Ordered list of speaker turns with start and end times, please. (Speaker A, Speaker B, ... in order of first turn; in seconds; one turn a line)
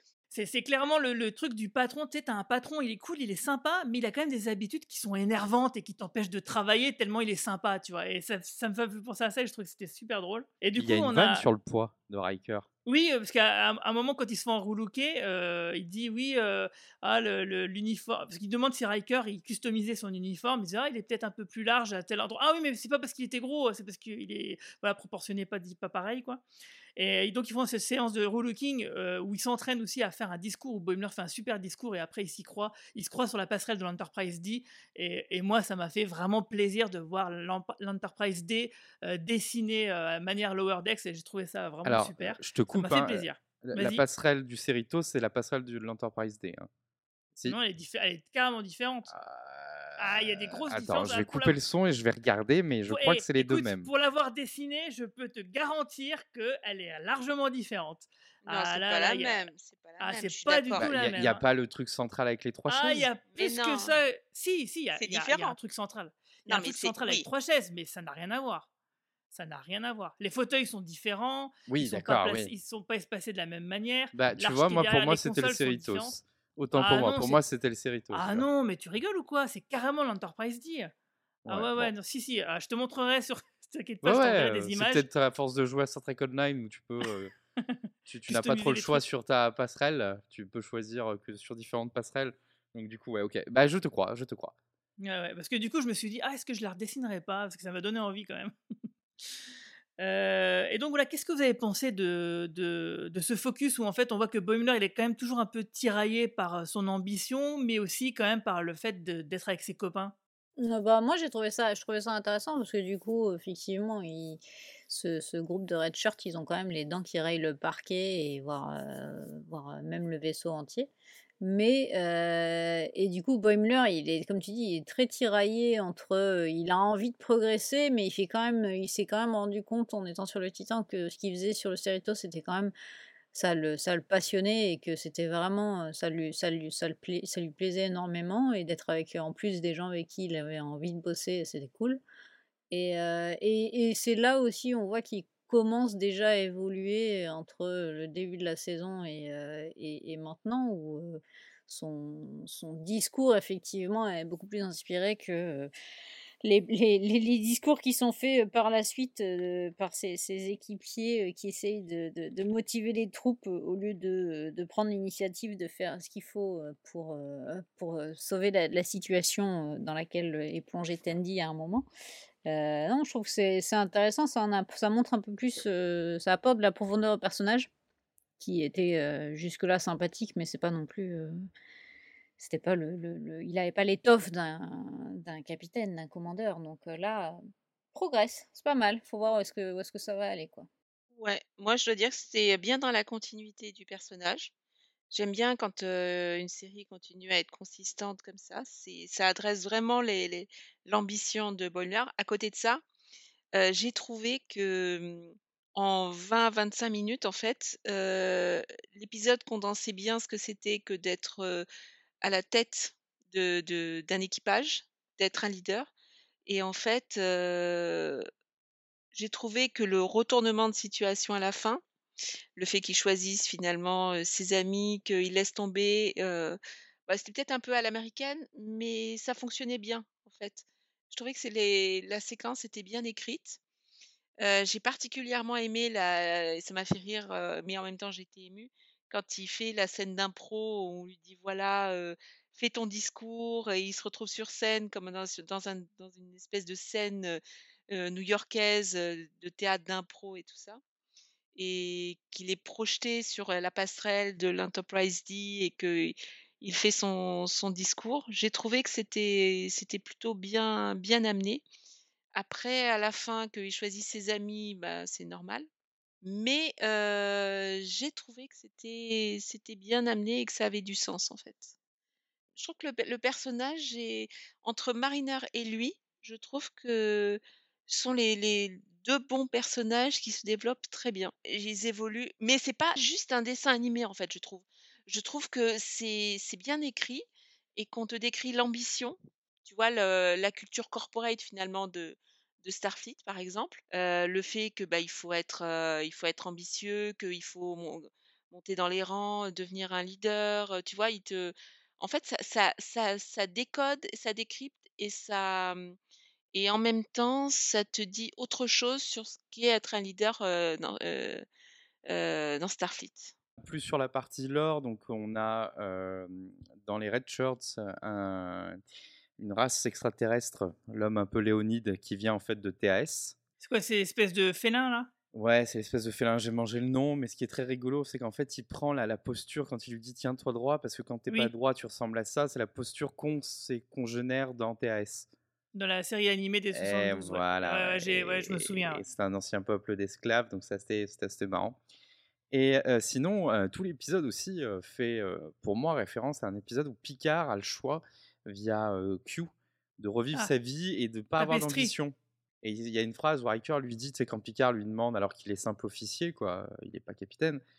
Speaker A: 0.3-11.4
Speaker B: 10.8-12.7
Speaker A: 12.8-26.4
Speaker A: 26.9-44.0
Speaker B: 41.8-46.7
Speaker A: 47.5-49.1
Speaker B: 49.1-53.9
Speaker A: 50.0-51.5
Speaker A: 52.9-59.5
Speaker C: 58.5-61.0
Speaker A: 60.0-61.4
Speaker B: 60.7-63.1
Speaker A: 62.7-68.7
Speaker C: 63.3-64.0
Speaker C: 64.9-65.6
Speaker C: 66.5-67.3
Speaker A: 69.3-76.1
Speaker B: 71.7-72.5
Speaker B: 74.1-78.5
Speaker A: 76.8-77.4
Speaker A: 78.1-80.9
Speaker B: 81.5-81.9
Speaker A: 81.5-85.0
Speaker B: 84.0-87.3
Speaker B: 88.1-94.5
Speaker A: 88.3-89.0
Speaker A: 95.0-98.5
Speaker A: 100.0-110.1
Speaker D: 110.6-120.9
Speaker D: 121.4-132.7
Speaker D: 133.3-142.0
Speaker D: 142.7-155.7
Speaker D: 156.4-171.9
Speaker D: 172.4-177.7
Speaker D: 178.4-181.4
Speaker D: 182.4-187.4
Speaker D: 187.9-190.7
Speaker C: 191.1-194.5
Speaker C: 195.1-202.8
Speaker C: 203.5-211.7
Speaker C: 212.2-215.9
Speaker C: 216.5-218.2
Speaker C: 219.1-221.8
Speaker C: 222.6-233.6
Speaker C: 234.4-247.4
Speaker C: 247.9-250.8
Speaker C: 251.6-261.6
Speaker C: 262.3-265.7
Speaker C: 266.2-271.7
Speaker C: 272.6-287.2
Speaker C: 287.8-305.9
Speaker C: 306.5-311.4
Speaker C: 312.1-313.3
Speaker B: 313.6-318.8
Speaker B: 319.4-323.4
Speaker A: 323.6-325.1
Speaker B: 325.3-335.3
Speaker A: 335.7-339.0
Speaker B: 336.7-341.8
Speaker B: 342.5-357.6
Speaker A: 351.4-351.9